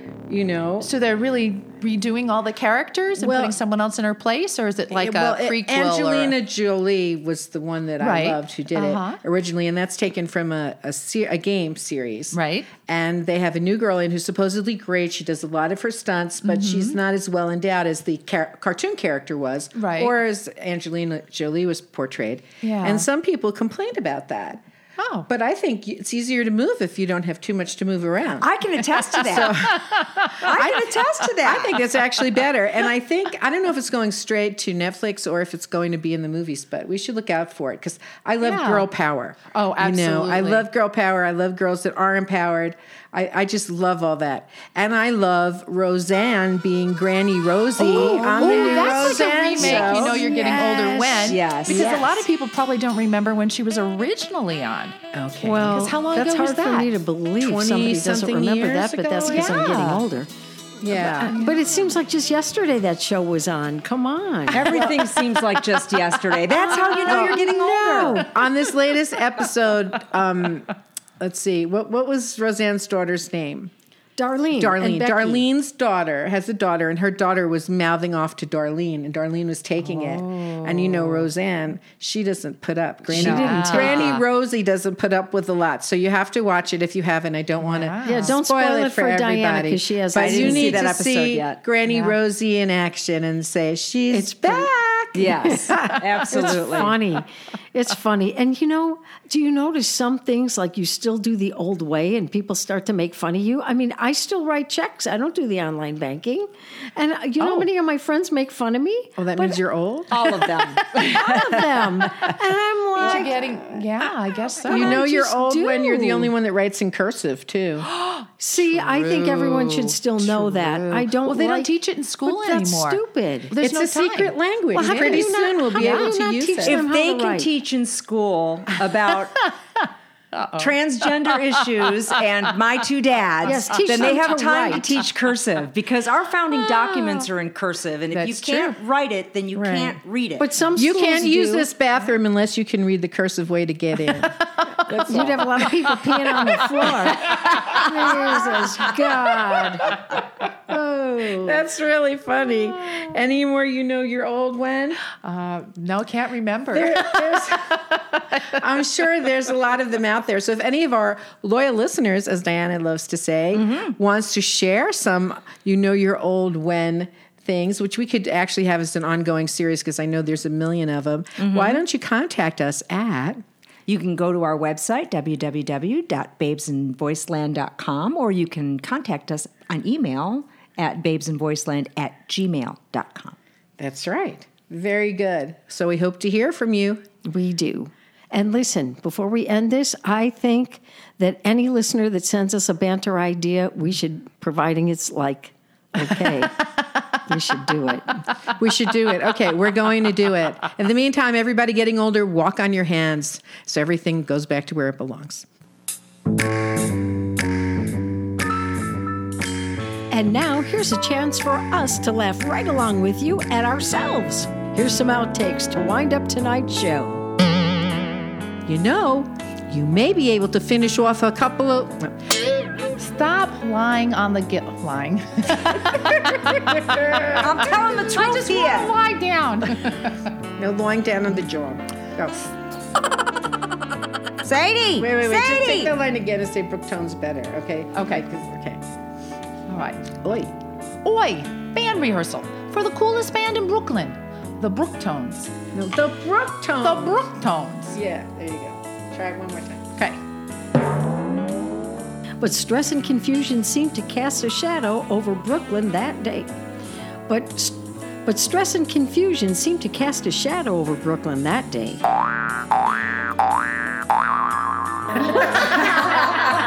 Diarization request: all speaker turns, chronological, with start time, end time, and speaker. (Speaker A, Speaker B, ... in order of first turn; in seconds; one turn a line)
Speaker A: 0.3-0.9
Speaker B: 0.8-6.4
Speaker A: 3.2-3.6
Speaker A: 4.9-24.6
Speaker B: 8.0-9.2
Speaker B: 12.3-12.8
Speaker B: 16.4-17.0
Speaker B: 19.7-20.2
Speaker B: 22.6-23.1
Speaker B: 25.0-25.3
Speaker A: 25.3-52.2
Speaker C: 28.4-29.6
Speaker B: 29.7-30.4
Speaker C: 30.4-31.8
Speaker B: 38.4-38.9
Speaker B: 39.5-40.7
Speaker D: 47.8-50.2
Speaker B: 47.8-56.9
Speaker C: 51.2-51.9
Speaker A: 55.1-55.9
Speaker D: 55.4-60.3
Speaker A: 57.4-59.7
Speaker B: 59.2-60.0
Speaker A: 60.8-61.3
Speaker D: 60.9-64.8
Speaker B: 61.2-61.5
Speaker C: 64.5-68.2
Speaker D: 66.6-68.4
Speaker A: 68.1-73.7
Speaker D: 74.2-75.5
Speaker A: 74.6-95.5
Speaker B: 79.9-81.1
Speaker D: 83.1-84.0
Speaker C: 83.1-84.2
Speaker B: 83.2-84.2
Speaker B: 87.6-88.4
Speaker D: 88.0-90.8
Speaker C: 90.2-91.6
Speaker D: 94.1-94.7
Speaker C: 95.1-97.0
Speaker D: 95.4-109.6
Speaker A: 109.2-110.4
Speaker C: 110.1-111.4
Speaker D: 110.9-113.8
Speaker B: 112.9-115.0
Speaker A: 113.0-113.4
Speaker A: 114.7-117.9
Speaker D: 114.7-116.3
Speaker B: 117.9-125.2
Speaker D: 118.4-123.5
Speaker A: 123.6-126.8
Speaker D: 124.7-127.5
Speaker B: 125.8-126.1
Speaker C: 126.6-129.5
Speaker B: 130.4-130.7
Speaker C: 130.4-140.4
Speaker D: 133.4-135.0
Speaker B: 138.1-138.8
Speaker D: 139.5-141.7
Speaker A: 140.8-145.4
Speaker D: 145.0-150.0
Speaker D: 150.7-151.5
Speaker A: 151.1-155.0
Speaker B: 155.1-157.9
Speaker A: 156.7-173.4
Speaker C: 163.5-163.9
Speaker C: 171.4-171.8
Speaker C: 173.9-183.3
Speaker A: 183.8-187.1
Speaker D: 187.2-196.7
Speaker D: 197.2-198.2
Speaker A: 198.6-205.4
Speaker D: 210.1-217.2
Speaker A: 218.7-222.1
Speaker B: 222.9-226.1
Speaker A: 226.0-227.5
Speaker C: 227.3-228.9
Speaker B: 228.0-230.2
Speaker A: 230.6-232.5
Speaker C: 234.4-235.9
Speaker A: 235.0-238.8
Speaker B: 237.9-238.2
Speaker B: 239.7-240.1
Speaker A: 240.1-240.5
Speaker B: 241.0-245.5
Speaker A: 245.7-247.3
Speaker B: 246.8-248.0
Speaker A: 247.9-249.9
Speaker D: 252.4-256.5
Speaker D: 257.3-262.0